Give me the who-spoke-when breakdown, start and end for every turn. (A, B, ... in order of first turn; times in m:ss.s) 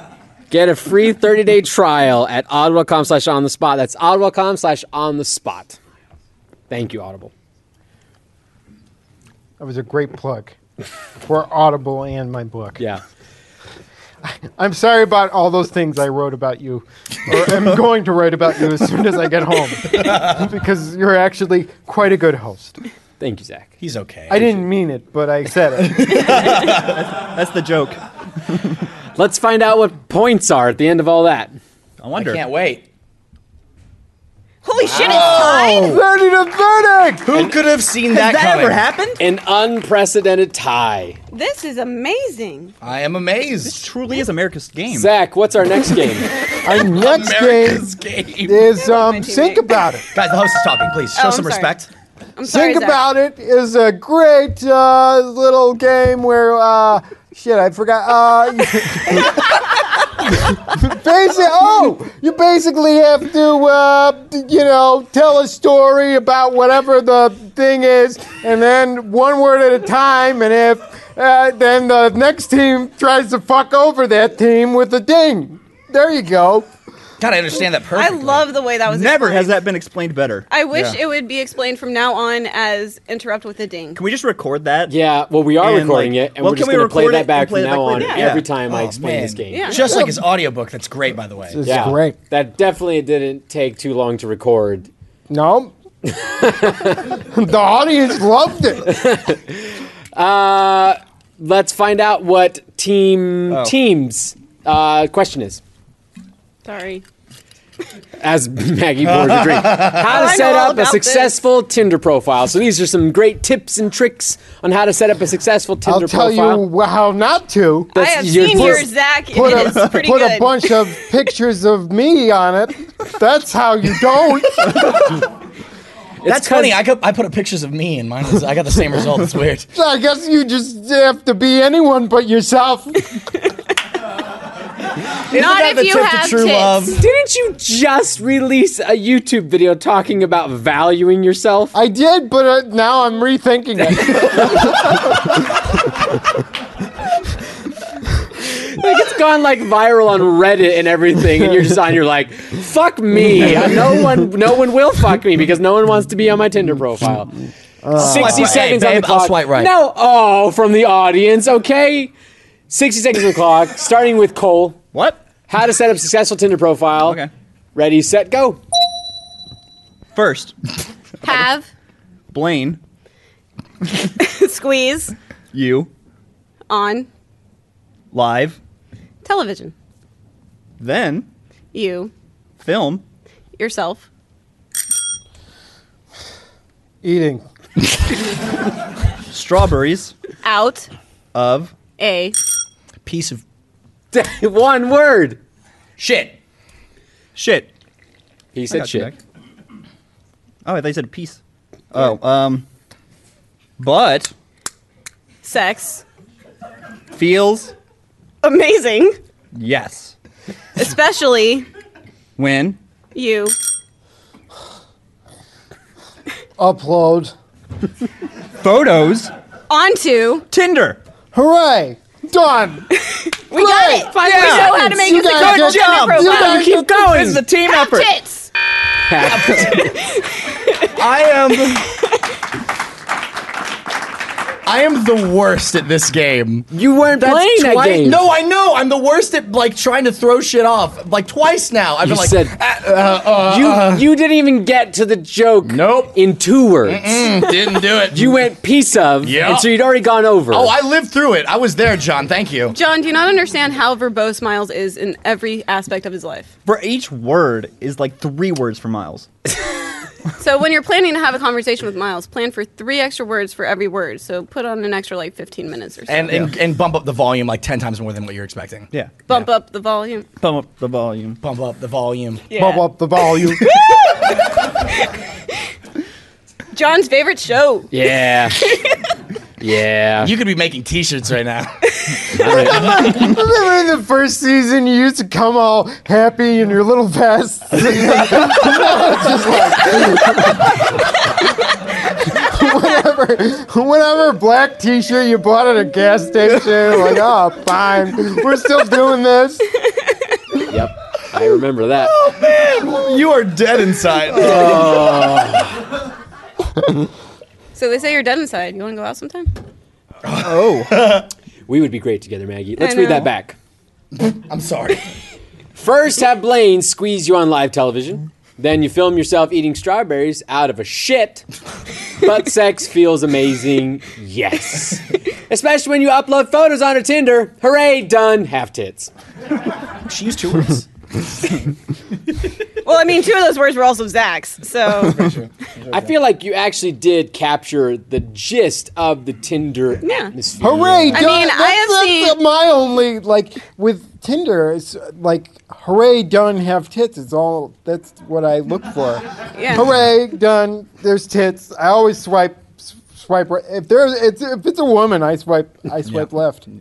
0:00.5-0:05.8 A
0:06.7-0:07.3 A
0:09.6-0:10.6 B
0:11.2-0:12.8 B
0:14.3-0:22.8 B
0:23.2-0:23.7 A
0:23.8-0:24.6 C
0:24.3-0:26.2 B
0:25.8-0:27.0 C
0:26.3-0:28.8 D
0:29.2-0:31.6 A
0:32.0-0:32.4 D
0:32.2-0:32.8 C
0:34.6-0:36.0 E
0:34.8-0:35.8 C
0:35.1-0:37.4 B
0:35.2-0:36.0 D
0:37.2-0:38.9 C
0:38.1-0:39.2 D
0:39.2-0:41.2 A
0:41.3-0:42.7 E
0:42.8-0:43.9 C
0:43.6-0:45.1 D
0:44.9-0:46.3 A
0:46.6-0:47.9 B
0:46.8-0:48.7 C
0:48.4-0:50.1 B
0:48.8-0:49.7 E
0:50.1-0:51.9 C
0:51.2-0:51.7 E
0:52.4-0:53.0 E
0:52.4-1:16.7 B
1:17.2-1:18.5 C
1:17.9-1:19.6 E
1:18.9-1:20.5 D
1:20.5-1:24.0 E
1:24.0-1:25.0 D
1:24.9-1:29.8 A
1:25.6-1:28.5 D
1:28.0-1:28.3 E
1:28.6-1:31.6 C
1:29.5-1:29.9 E
1:29.8-1:30.2 B
1:31.5-1:32.2 B
1:31.6-1:34.9 A
1:35.3-1:35.7 B
1:36.2-1:37.0 A
1:37.0-1:39.0 B
1:38.9-1:45.6 A
1:46.6-1:47.0 E
1:48.2-1:56.6 A
1:49.1-1:50.3 C
1:50.0-1:51.3 E
1:55.8-2:05.0 B
1:57.9-1:58.9 A
1:58.0-2:00.9 E
1:59.5-1:59.9 D
2:06.2-2:06.8 A
2:06.3-2:09.7 C
2:09.8-2:13.3 B
2:15.3-2:17.0 C
2:15.3-2:16.9 E
2:16.9-2:21.8 A
2:21.7-2:25.0 B
2:28.4-2:37.3 A
2:37.8-2:38.6 B
2:38.0-2:39.7 C
2:38.0-2:42.1 A
2:42.7-2:44.8 A
2:44.9-2:45.2 D
2:45.5-2:47.2 A
2:47.0-2:47.3 D
2:47.8-2:48.6 A
2:50.1-2:50.6 D
2:51.2-2:51.7 E
2:52.3-2:52.8 D
2:54.1-2:55.1 E
2:55.5-2:55.9 D
2:56.7-2:57.1 E
2:58.1-2:58.6 D
2:59.2-2:59.7 E
3:00.8-3:01.3 D
3:01.7-3:02.1 E
3:02.6-3:03.0 D
3:03.6-3:04.1 E
3:07.0-3:07.4 B
3:09.3-3:10.1 D
3:10.4-3:10.9 E
3:11.3-3:11.7 D
3:12.0-3:12.4 E
3:13.0-3:13.4 C
3:14.1-3:15.4 A
3:16.0-3:16.4 C
3:17.4-3:17.7 D
3:18.5-3:19.1 A
3:18.7-3:19.2 D
3:20.6-3:21.4 D
3:21.9-3:22.7 D
3:23.8-3:24.3 D
3:25.4-3:26.0 E
3:27.1-3:27.7 D
3:28.4-3:29.2 E
3:29.6-3:30.2 D
3:30.8-3:31.7 E
3:32.4-3:32.8 D
3:33.1-3:33.5 E
3:36.6-3:37.3 B
3:38.6-3:39.3 D
3:39.7-3:40.5 E
3:40.5-3:41.0 D
3:41.3-3:42.9 B
3:43.1-3:46.8 E
3:43.5-3:46.8 B
3:44.1-3:47.4 A
3:44.2-3:44.8 D
3:45.4-3:48.1 D
3:47.7-3:48.5 E
3:49.1-3:50.0 A
3:49.3-3:50.0 C
3:49.5-3:50.9 E
3:50.9-3:51.9 C
3:51.8-3:52.2 E
3:54.7-3:56.7 C
3:56.7-3:58.3 A
3:57.2-4:04.0 C
4:02.0-4:02.6 A
4:03.3-4:07.3 A
4:05.6-4:06.2 C
4:06.8-4:08.3 C
4:08.1-4:10.7 A
4:09.2-4:09.7 C
4:10.5-4:12.8 C
4:12.7-4:16.5 E
4:16.7-4:19.3 D
4:20.4-4:26.5 E
4:26.1-4:29.5 C
4:29.3-4:30.3 E
4:30.4-4:31.4 D
4:31.4-4:32.4 C
4:32.5-4:32.9 E
4:32.6-4:33.7 B
4:33.7-4:34.4 E
4:36.7-4:37.9 E
4:37.9-4:38.7 A
4:38.6-4:39.0 E
4:39.6-4:40.3 A
4:40.2-4:42.0 C
4:42.3-4:43.1 A
4:42.5-4:51.3 B
4:52.1-4:59.7 B
5:00.7-5:02.2 A
5:02.0-5:05.1 C
5:04.3-5:05.8 A
5:07.8-5:09.5 E
5:10.2-5:11.3 C
5:10.4-5:11.0 D
5:11.7-5:13.6 A
5:12.8-5:13.3 E
5:14.2-5:15.1 C
5:15.8-5:21.5 A
5:22.2-5:29.1 A
5:30.0-5:30.9 C
5:32.8-5:35.3 E
5:35.0-5:36.1 C
5:35.9-5:41.3 A
5:40.0-5:40.3 E
5:40.6-5:56.7 B
5:41.1-5:42.4 E
5:49.6-5:49.9 E